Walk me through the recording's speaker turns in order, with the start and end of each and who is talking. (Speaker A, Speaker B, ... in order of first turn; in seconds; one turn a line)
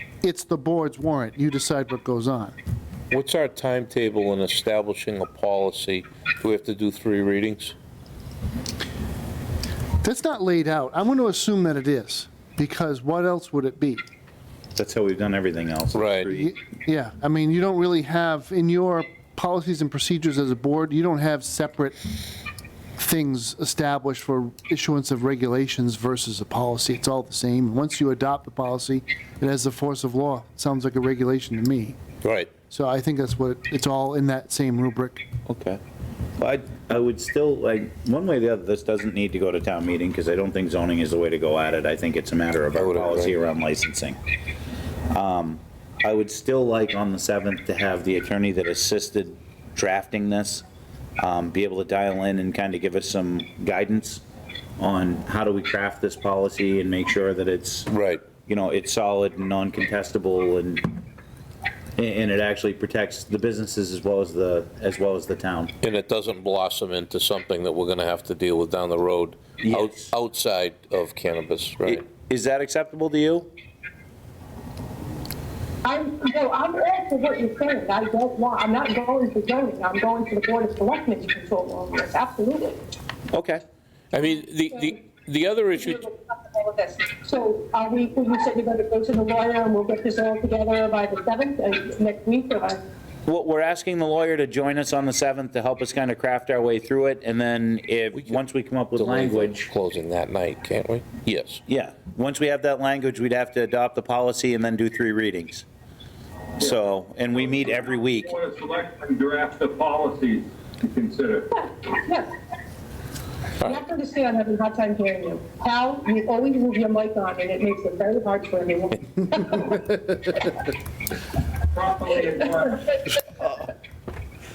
Speaker A: 0.2-2.6
Speaker B: 3.1-7.8
Speaker A: 10.0-14.1
Speaker C: 14.8-16.6
Speaker B: 15.9-16.3
Speaker A: 16.3-22.1
Speaker A: 23.0-32.0
Speaker B: 32.2-32.5
Speaker A: 32.7-35.3
Speaker C: 35.5-35.8
Speaker C: 36.4-44.2
Speaker B: 42.8-43.3
Speaker C: 45.1-50.6
Speaker C: 51.2-54.2
Speaker C: 54.8-57.9
Speaker B: 57.9-58.2
Speaker C: 58.5-60.9
Speaker C: 62.0-65.7
Speaker B: 65.8-72.1
Speaker C: 69.6-70.1
Speaker C: 71.8-73.5
Speaker D: 75.8-82.8
Speaker C: 83.3-83.6
Speaker B: 84.1-86.0
Speaker D: 85.7-92.8
Speaker C: 93.3-99.7
Speaker B: 99.0-101.6
Speaker C: 101.7-105.7
Speaker C: 106.6-108.3
Speaker E: 107.3-111.5
Speaker D: 111.7-112.3
Speaker D: 113.6-119.8
Speaker E: 119.4-119.9
Speaker E: 121.7-123.0
Speaker C: 123.4-123.7